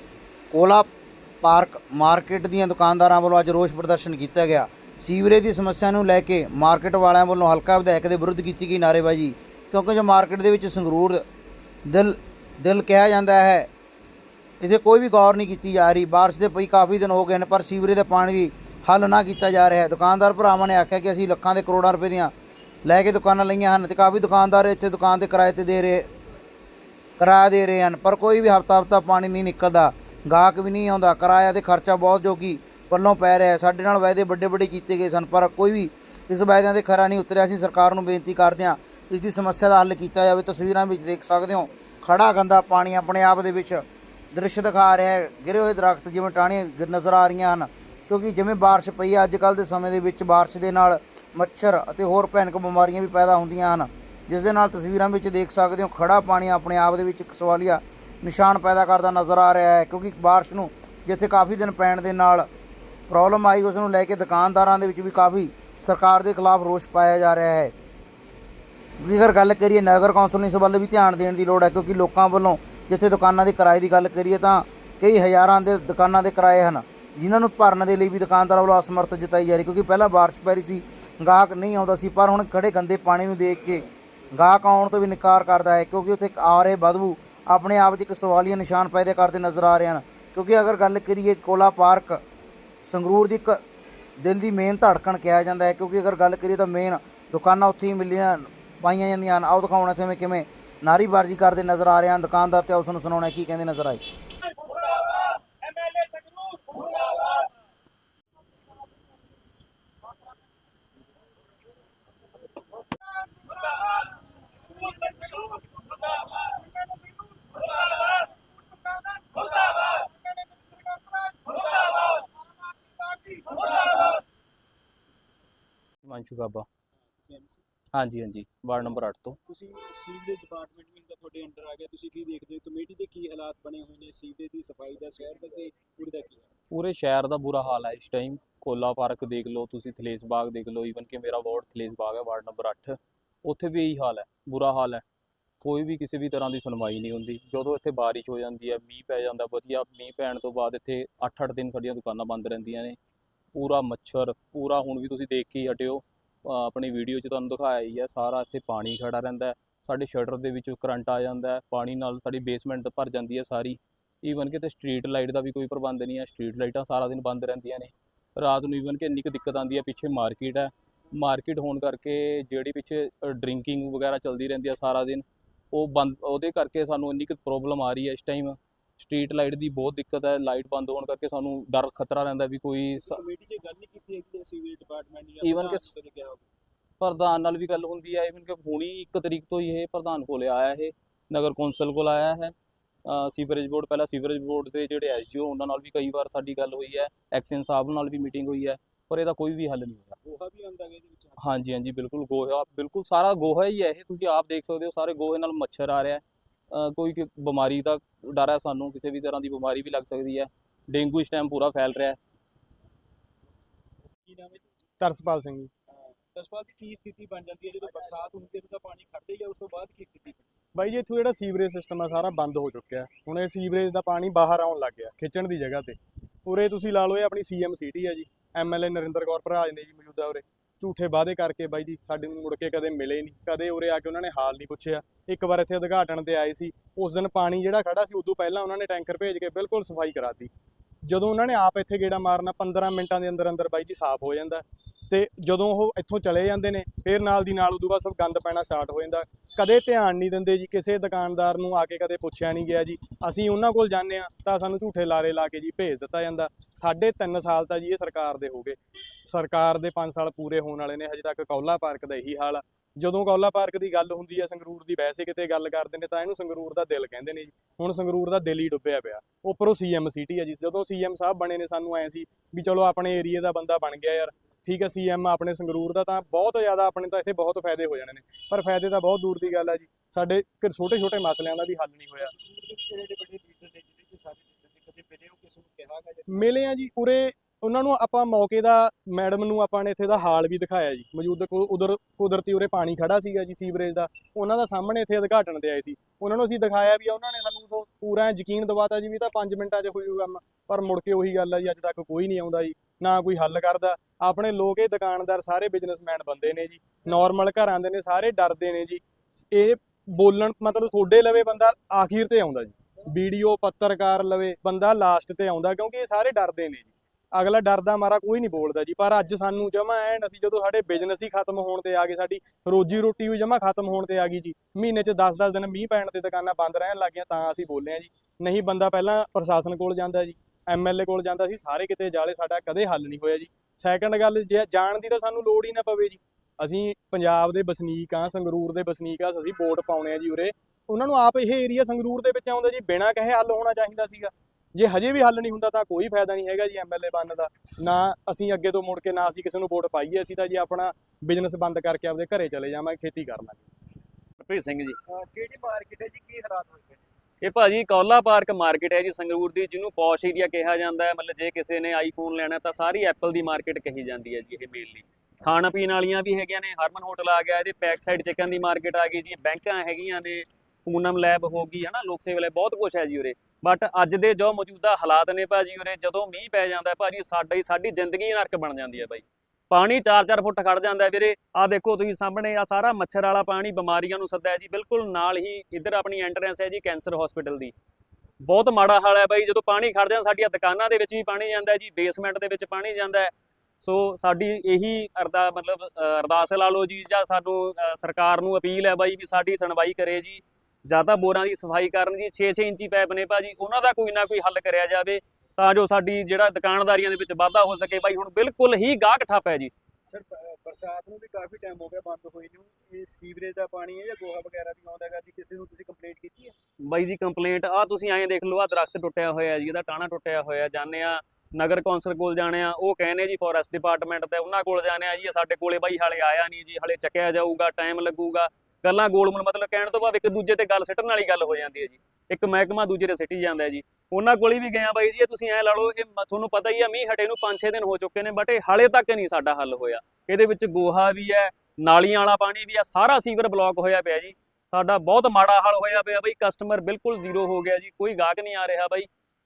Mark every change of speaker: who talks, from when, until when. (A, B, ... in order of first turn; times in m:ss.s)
0:00.5-0:00.9 A
0:01.4-0:11.2 A
0:11.8-0:13.7 A
0:14.6-0:22.3 A
0:22.8-0:26.1 A
0:27.2-1:02.5 A
1:03.1-1:07.7 A
1:09.0-1:32.2 A
1:32.8-1:33.6 A
1:34.2-1:44.0 A
1:44.6-1:47.4 B
1:53.2-1:54.0 B
1:54.8-2:02.3 B
2:03.0-2:04.2 B
2:06.0-2:06.6 C
2:07.0-2:07.6 B
2:07.9-2:09.4 C
2:09.5-2:16.5 B
2:16.7-2:25.0 C
2:25.6-2:33.0 C
2:33.5-3:03.2 C
3:03.0-3:06.5 B
3:05.4-3:05.9 C
3:07.0-3:20.2 C
3:20.2-3:21.4 B
3:21.4-3:32.2 C
3:34.3-3:34.6 B
3:35.0-3:35.7 D
3:36.3-3:40.4 B
3:40.7-4:00.5 D
4:01.0-4:42.3 D
4:42.2-4:46.5 B
4:46.3-5:53.6 D
5:54.4-5:55.0 E
5:55.1-5:57.0 B
5:57.4-6:27.7 E
6:28.4-6:33.3 E
6:33.8-6:49.7 E
6:50.1-6:56.5 B
6:56.9-7:29.1 E